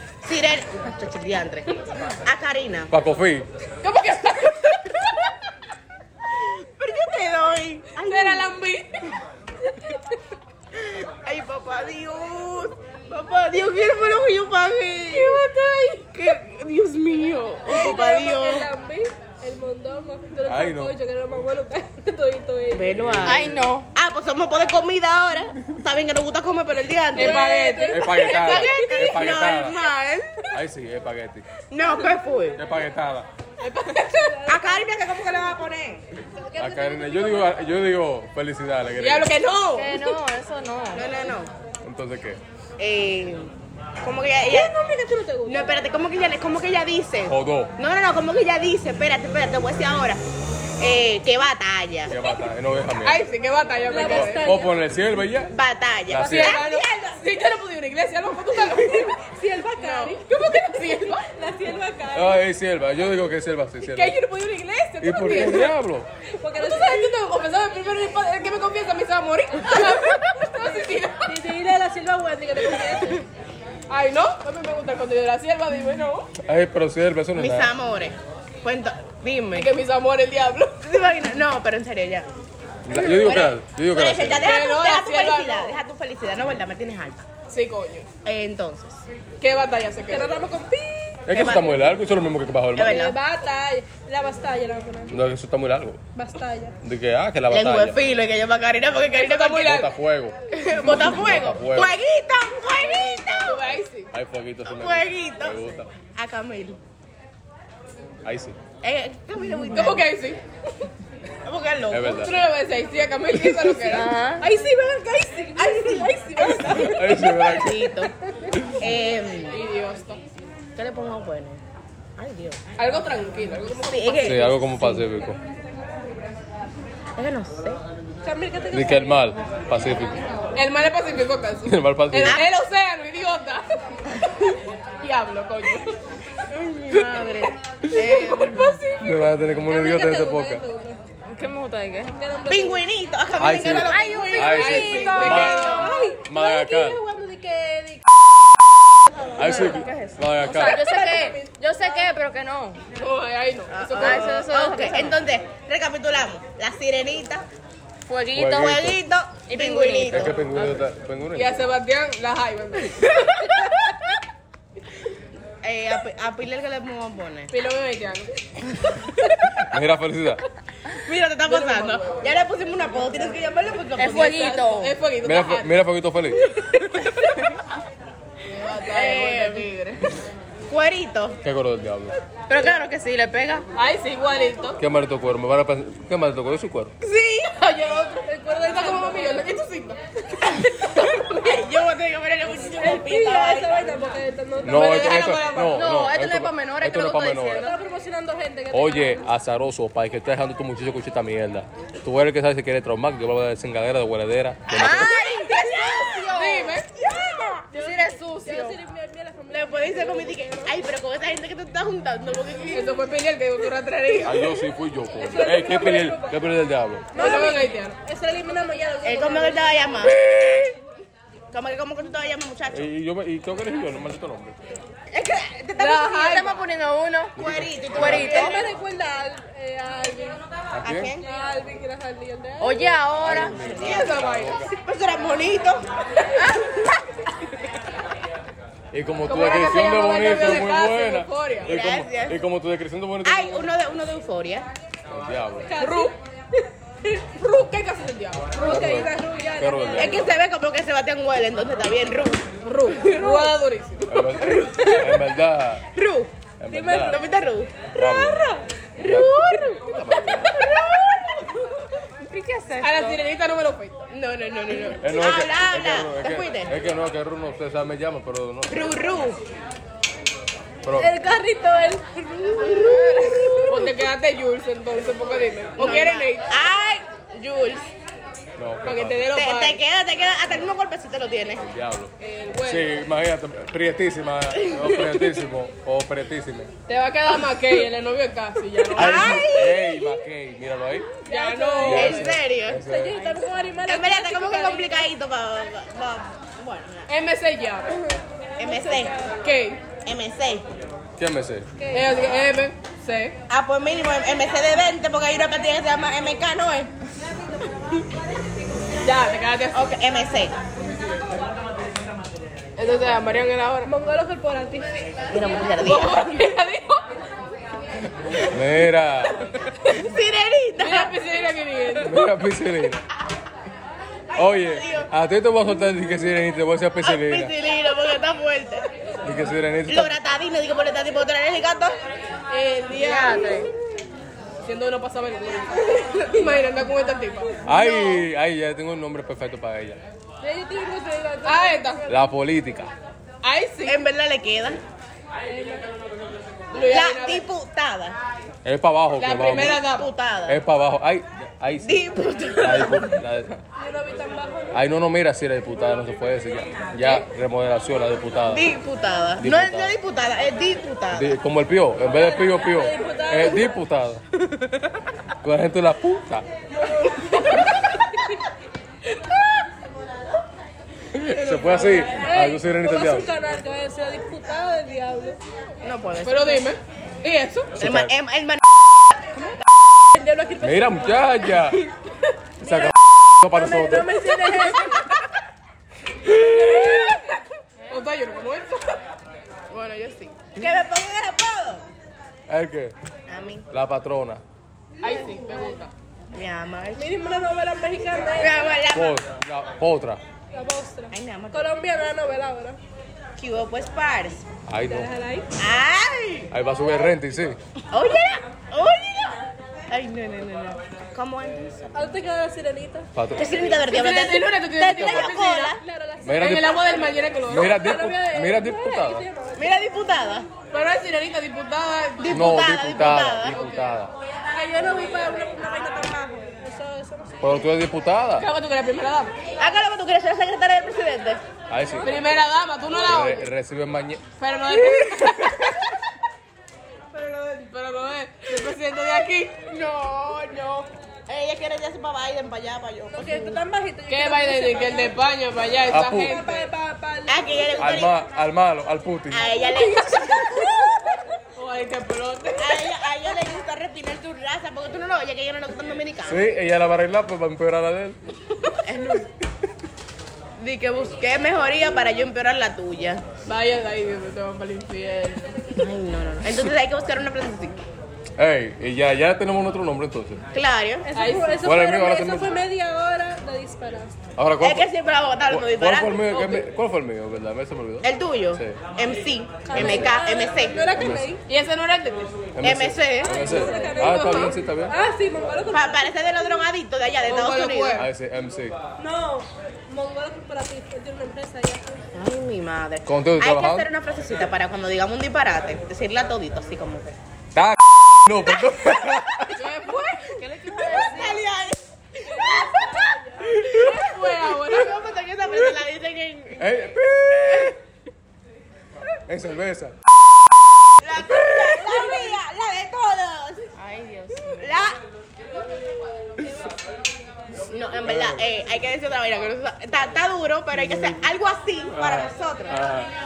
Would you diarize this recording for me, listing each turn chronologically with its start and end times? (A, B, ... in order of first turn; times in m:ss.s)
0:00.2-0:02.9 A
0:02.9-0:03.5 B
0:03.8-0:05.1 C
0:06.4-0:08.5 A
0:08.0-0:09.1 C
0:10.7-0:15.4 A
0:15.1-0:16.1 C
0:16.1-0:18.7 A
0:17.7-0:23.0 D
0:20.4-0:21.0 B
0:22.7-0:30.4 A
0:22.9-0:23.6 B
0:23.2-0:23.9 E
0:27.1-0:28.7 C
0:27.2-0:29.0 D
0:27.9-0:29.8 B
0:30.5-0:31.4 B
0:31.7-0:32.6 A
0:32.6-0:33.3 B
0:33.6-0:34.4 C
0:34.1-0:34.8 D
0:34.5-0:36.0 A
0:36.4-0:37.6 D
0:36.6-0:39.3 B
0:39.0-0:40.1 C
0:39.8-0:41.2 E
0:40.9-0:41.5 A
0:41.8-0:42.4 B
0:42.8-0:44.7 A
0:44.5-0:45.8 D
0:45.5-0:50.2 A
0:47.3-0:47.7 B
0:50.8-0:52.1 A
0:52.1-0:53.2 B
0:53.0-0:54.5 C
0:53.9-0:54.7 D
0:54.0-0:55.5 B
0:55.5-0:56.9 A
0:56.1-0:56.6 B
0:56.2-0:59.2 C
0:58.8-1:02.4 D
0:59.8-1:01.3 C
1:02.1-1:04.2 B
1:03.8-1:05.7 C
1:05.0-1:06.1 B
1:06.4-1:07.1 D
1:06.5-1:11.3 C
1:10.6-1:13.2 D
1:13.9-1:16.3 C
1:16.4-1:17.7 B
1:17.4-1:19.7 A
1:19.5-1:20.8 C
1:20.8-1:22.3 A
1:22.8-1:24.5 B
1:22.9-1:27.3 A
1:24.4-1:25.8 C
1:27.5-1:28.1 C
1:28.2-1:29.0 A
1:29.4-1:30.3 C
1:30.1-1:31.2 D
1:31.3-1:33.1 B
1:31.3-1:31.9 A
1:32.8-1:33.2 A
1:32.8-1:35.2 D
1:35.1-1:36.0 B
1:36.2-1:36.8 D
1:36.8-1:38.0 B
1:37.5-1:39.8 A
1:39.1-1:39.9 C
1:39.6-1:42.0 B
1:40.5-1:43.8 A
1:42.9-1:44.1 C
1:44.1-1:45.9 B
1:44.6-1:46.8 A
1:48.2-1:48.6 B
1:48.8-1:50.1 A
1:49.7-1:50.4 C
1:51.4-1:52.3 A
1:51.9-1:52.4 B
1:52.1-1:54.1 C
1:53.9-1:54.4 A
1:53.9-1:54.4 E
1:54.4-1:57.1 D
1:55.6-1:56.2 A
1:56.6-1:57.9 B
1:57.4-1:58.1 A
1:58.8-1:59.6 A
1:59.5-2:00.2 C
2:00.8-2:01.6 A
2:02.2-2:02.6 A
2:02.8-2:04.5 C
2:03.9-2:05.1 A
2:04.2-2:05.4 B
2:07.2-2:07.8 A
2:08.2-2:09.3 D
2:08.7-2:10.2 B
2:10.5-2:13.7 C
2:11.7-2:12.4 B
2:12.2-2:12.5 A
2:15.0-2:16.0 C
2:16.5-2:18.8 A
2:18.1-2:18.7 C
2:18.4-2:21.0 D
2:19.0-2:20.6 B
2:21.3-2:22.1 E
2:22.1-2:22.8 D
2:22.5-2:25.9 A
2:23.4-2:27.0 B
2:23.8-2:25.4 E
2:24.3-2:26.0 C
2:25.0-2:28.0 D
2:29.1-2:29.9 D
2:29.4-2:30.9 B
2:29.4-2:32.8 E
2:30.5-2:32.0 D
2:33.0-2:34.4 C
2:33.7-2:37.4 A
2:34.0-2:35.2 E
2:38.1-2:38.7 E
2:38.3-2:39.0 B
2:38.4-2:40.4 A
2:39.5-2:40.7 E
2:40.1-2:41.6 B
2:41.3-2:43.4 C
2:45.6-2:47.5 A
2:47.5-2:48.4 C
2:49.7-2:50.4 B
2:50.9-2:54.9 A
2:51.4-2:52.3 C
2:54.0-2:55.7 C
2:54.0-2:54.7 E
2:55.2-2:56.4 B
2:56.6-2:57.3 C
2:58.5-3:00.0 C
2:58.9-2:59.7 A
3:00.7-3:01.4 A
3:01.4-3:02.2 B
3:02.5-3:03.6 E
3:03.8-3:04.8 C
3:04.8-3:06.9 B
3:07.0-3:11.2 C
3:08.2-3:09.4 D
3:11.0-3:13.8 A
3:12.8-3:15.5 D
3:14.6-3:17.7 B
3:15.1-3:17.8 E
3:17.5-3:19.2 D
3:18.7-3:25.2 B
3:24.7-3:27.7 A
3:24.8-3:25.5 E
3:26.0-3:26.4 E
3:26.3-3:26.9 C
3:27.7-3:28.8 E
3:27.7-3:30.7 D
3:29.5-3:33.0 A
3:32.7-3:34.5 C
3:34.2-3:37.2 B
3:35.2-3:36.4 D
3:37.1-3:39.8 D
3:37.2-3:38.0 C
3:39.0-3:40.6 A
3:40.2-3:40.6 B
3:41.5-3:42.9 A
3:42.7-3:44.7 B
3:45.1-3:46.4 A
3:45.8-3:46.6 C
3:46.2-3:47.4 E
3:47.4-3:48.4 B
3:47.4-3:48.6 A
3:48.0-3:50.4 D
3:48.0-3:48.4 E
3:50.7-3:51.2 B
3:50.8-3:51.3 A
3:51.2-3:53.0 D
3:52.6-3:53.6 E
3:53.2-3:54.7 B
3:53.2-3:55.8 A
3:53.7-3:54.6 C
3:58.9-4:03.7 B
3:59.2-4:01.7 C
4:01.6-4:02.4 A
4:03.2-4:04.7 A
4:05.1-4:05.7 B
4:05.6-4:06.2 D
4:05.8-4:06.2 C
4:07.0-4:08.5 C
4:08.5-4:10.3 D
4:08.6-4:10.3 B
4:10.0-4:12.5 A
4:12.6-4:14.5 C
4:13.2-4:13.6 D
4:14.1-4:15.8 B
4:16.0-4:16.3 A
4:16.6-4:17.2 B
4:16.7-4:17.3 D
4:17.0-4:17.9 A
4:18.0-4:18.4 B
4:18.0-4:18.6 D
4:19.0-4:20.6 B
4:19.0-4:19.8 A
4:20.6-4:21.2 A
4:22.2-4:22.9 A
4:22.3-4:23.2 E
4:22.8-4:24.0 C
4:24.1-4:26.7 A
4:25.0-4:29.0 B
4:28.7-4:29.4 A
4:30.8-4:31.1 B
4:31.0-4:33.9 D
4:32.6-4:33.7 A
4:33.7-4:36.5 C
4:35.8-4:37.9 A
4:38.6-4:39.3 B
4:38.8-4:39.8 C
4:39.3-4:41.6 A
4:41.6-4:46.7 B
4:42.2-4:42.9 C
4:44.7-4:45.2 A
4:46.9-4:49.4 C
4:48.9-4:50.0 A
4:49.0-4:51.1 B
4:51.3-4:52.2 D
4:51.3-4:52.3 C
4:51.8-4:53.2 B
4:51.9-4:52.8 A
4:52.8-4:55.1 D
4:53.9-4:57.0 A
4:57.1-4:58.0 C
4:58.6-4:59.3 D
4:58.6-4:59.2 A
4:59.4-4:59.8 C
5:00.0-5:00.7 A
5:01.2-5:01.7 B
5:01.8-5:02.1 D
5:01.9-5:03.4 C
5:03.5-5:06.9 A
5:09.0-5:09.9 C
5:09.7-5:10.6 A
5:12.8-5:13.9 C
5:13.8-5:14.9 D
5:15.3-5:16.2 A
5:15.8-5:17.0 C
5:18.3-5:19.4 B
5:19.8-5:21.1 A
5:20.8-5:22.3 C
5:22.0-5:23.0 B
5:24.3-5:25.1 A
5:24.4-5:27.5 B
5:27.0-5:28.9 A
5:29.2-5:30.2 B
5:29.9-5:32.0 A
5:32.5-5:33.7 C
5:32.9-5:33.7 A
5:34.6-5:37.5 C
5:37.6-5:40.0 B
5:37.7-5:38.2 A
5:40.4-5:42.0 D
5:41.4-5:42.0 C
5:42.1-5:42.9 B
5:43.4-5:44.0 C
5:43.8-5:44.8 A
5:45.5-5:45.9 D
5:46.7-5:47.5 C
5:46.8-5:48.2 A
5:48.6-5:49.9 B
5:49.2-5:50.1 C
5:49.5-5:50.6 A
5:50.5-5:53.5 B
5:51.8-5:53.1 A
5:53.8-5:54.8 D
5:54.7-5:58.7 B
5:58.5-6:01.4 A
5:59.4-6:00.0 B
6:01.1-6:04.2 B
6:02.1-6:03.8 D
6:05.4-6:06.5 B
6:11.1-6:13.3 B
6:11.4-6:15.4 D
6:15.8-6:16.6 A
6:16.2-6:17.8 C
6:17.8-6:18.1 B
6:17.8-6:19.6 A
6:20.1-6:21.4 D
6:20.6-6:21.8 B
6:22.6-6:24.2 B
6:22.6-6:22.9 D
6:23.5-6:25.1 D
6:27.9-6:29.0 C
6:29.7-6:31.9 A
6:32.5-6:33.0 B
6:33.3-6:33.7 A
6:33.7-6:34.4 B
6:35.0-6:35.9 C
6:36.3-6:37.1 A
6:37.0-6:38.7 D
6:38.4-6:39.2 A
6:38.9-6:40.2 B
6:40.5-6:42.8 D
6:41.1-6:41.7 A
6:43.4-6:44.4 A
6:44.7-6:45.1 B
6:44.8-6:45.5 D
6:45.6-6:46.5 A
6:46.5-6:47.6 B
6:47.9-6:52.1 A
6:51.9-6:53.1 D
6:53.2-6:53.7 B
6:53.4-6:55.8 A
6:53.8-6:55.8 C
6:55.8-6:59.8 D
6:56.2-6:56.8 B
6:56.4-6:57.7 C
6:57.5-6:59.2 B
6:59.6-7:00.5 A
7:00.7-7:02.4 C
7:02.2-7:03.6 A
7:02.3-7:04.1 B
7:04.5-7:07.6 D
7:07.4-7:08.5 B
7:08.4-7:09.3 C
7:09.6-7:11.4 A
7:11.7-7:12.1 B
7:12.0-7:13.5 C
7:13.0-7:14.2 B
7:14.4-7:15.8 C
7:17.1-7:19.6 C
7:19.6-7:23.6 A
7:23.1-7:25.2 D
7:24.1-7:26.7 C
7:25.9-7:26.4 B
7:26.0-7:28.0 D
7:27.3-7:28.2 A
7:27.8-7:29.6 B
7:29.3-7:30.7 A
7:29.9-7:31.3 D
7:31.6-7:32.9 C
7:32.6-7:36.5 A
7:36.2-7:38.2 B
7:38.7-7:39.3 A
7:40.6-7:43.2 A
7:43.5-7:45.6 C
7:45.7-7:47.8 A
7:48.4-7:50.4 B
7:50.5-7:51.1 A
7:51.0-7:54.1 D
7:51.2-7:51.6 C
7:51.6-7:52.5 B
7:54.4-7:54.9 B
7:54.6-7:56.6 A
7:55.5-7:58.8 B
7:58.0-8:00.8 A
7:59.7-8:01.4 D
7:59.7-8:00.2 B
8:00.9-8:01.3 B
8:01.5-8:02.3 C
8:02.6-8:04.9 B
8:02.6-8:03.4 A
8:03.3-8:06.5 D
8:03.8-8:04.5 C
8:05.7-8:08.1 A
8:07.2-8:08.1 C
8:07.9-8:08.8 B
8:09.0-8:12.0 D
8:12.1-8:17.2 A
8:13.0-8:13.9 B
8:17.5-8:19.5 B
8:19.5-8:21.2 C
8:20.7-8:23.1 A
8:22.2-8:23.5 D
8:23.7-8:25.0 C
8:24.6-8:26.8 A
8:26.6-8:27.8 B
8:27.5-8:27.7 A
8:29.3-8:30.0 B
8:31.0-8:35.0 A
8:31.2-8:32.0 B
8:37.7-8:42.8 A
8:38.0-8:38.4 B
8:41.9-8:43.1 B